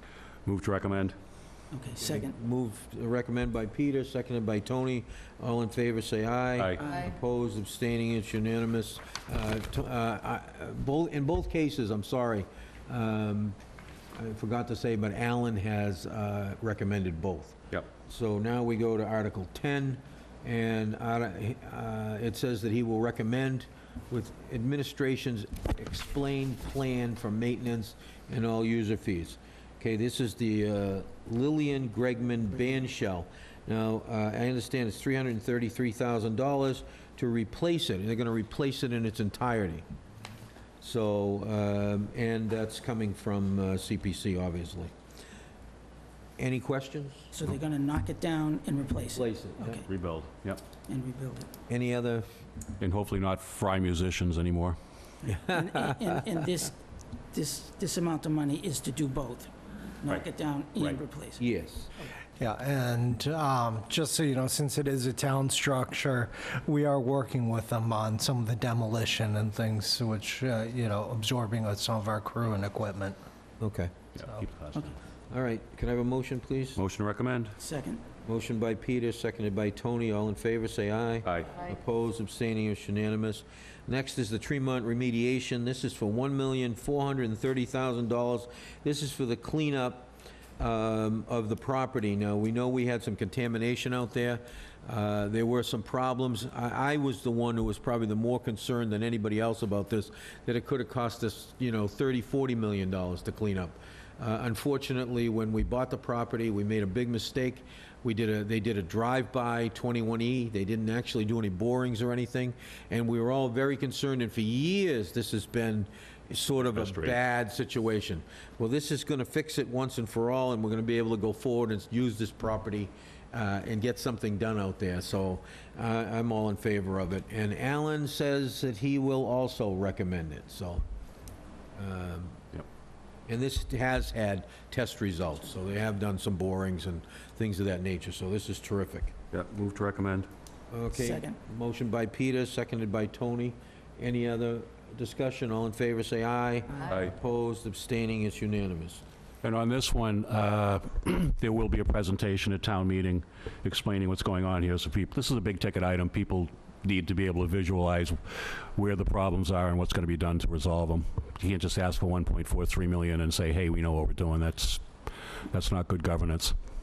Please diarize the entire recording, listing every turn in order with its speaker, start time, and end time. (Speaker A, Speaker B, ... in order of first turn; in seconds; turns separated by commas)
Speaker A: 0.5-1.2, Speaker B: 1.7-2.4, Speaker C: 2.0-13.6, Speaker C: 14.2-39.8, Speaker C: 40.8-44.9, Speaker C: 46.4-47.3, Speaker B: 47.3-49.9, Speaker C: 49.1-49.8, Speaker A: 49.9-50.6, Speaker B: 50.9-51.5, Speaker C: 51.7-52.3, Speaker A: 52.8-54.8, Speaker B: 55.2-56.8, Speaker C: 55.3-56.3, Speaker B: 57.3-61.4, Speaker C: 61.4-61.9, Speaker D: 62.4-73.2, Speaker C: 73.6-73.9, Speaker A: 74.2-75.0, Speaker C: 75.3-76.8, Speaker A: 76.8-77.6, Speaker B: 77.6-78.0, Speaker C: 78.2-130.8, Speaker A: 81.2-81.6, Speaker A: 116.6-117.2, Speaker C: 131.8-132.4, Speaker C: 133.3-139.2, Speaker A: 139.3-140.3, Speaker C: 140.7-149.0, Speaker B: 140.9-141.4, Speaker A: 149.4-164.9, Speaker A: 165.5-166.6